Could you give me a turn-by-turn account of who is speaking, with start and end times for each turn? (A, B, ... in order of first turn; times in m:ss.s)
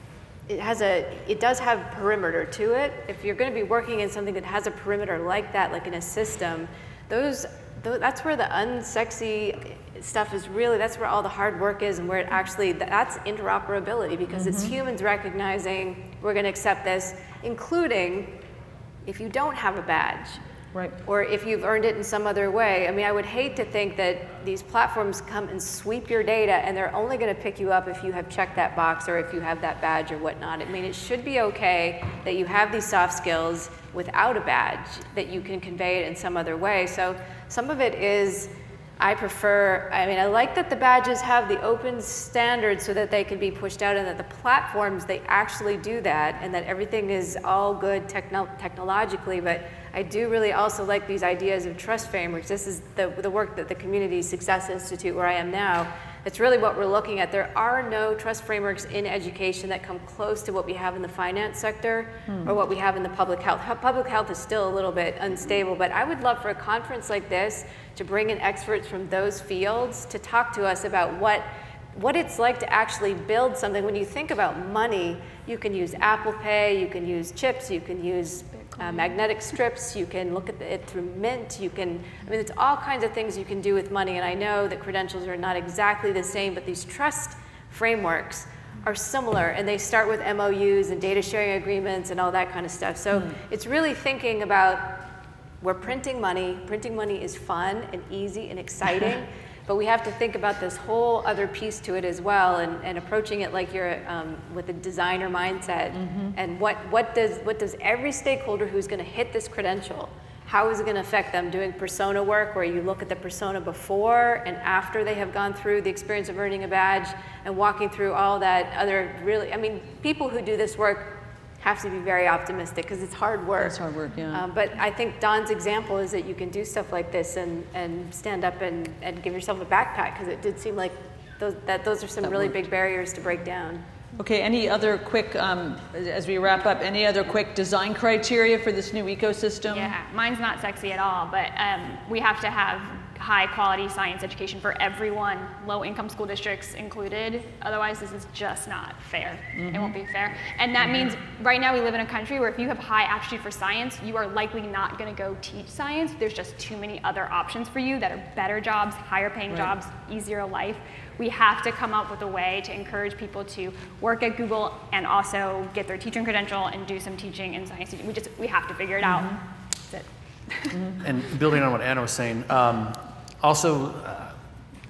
0:00.5-0:18.4 A
0:14.3-0:14.7 B
0:19.0-0:20.4 A
0:21.0-1:35.1 A
1:02.3-1:02.5 B
1:35.6-2:03.8 A
1:45.9-1:46.4 B
2:03.6-2:04.4 B
2:04.3-2:13.8 A
2:12.2-2:12.5 B
2:14.2-2:19.9 B
2:19.7-2:50.8 C
2:29.6-2:29.9 B
2:49.0-2:49.4 B
2:50.7-2:51.0 B
2:51.0-2:54.4 D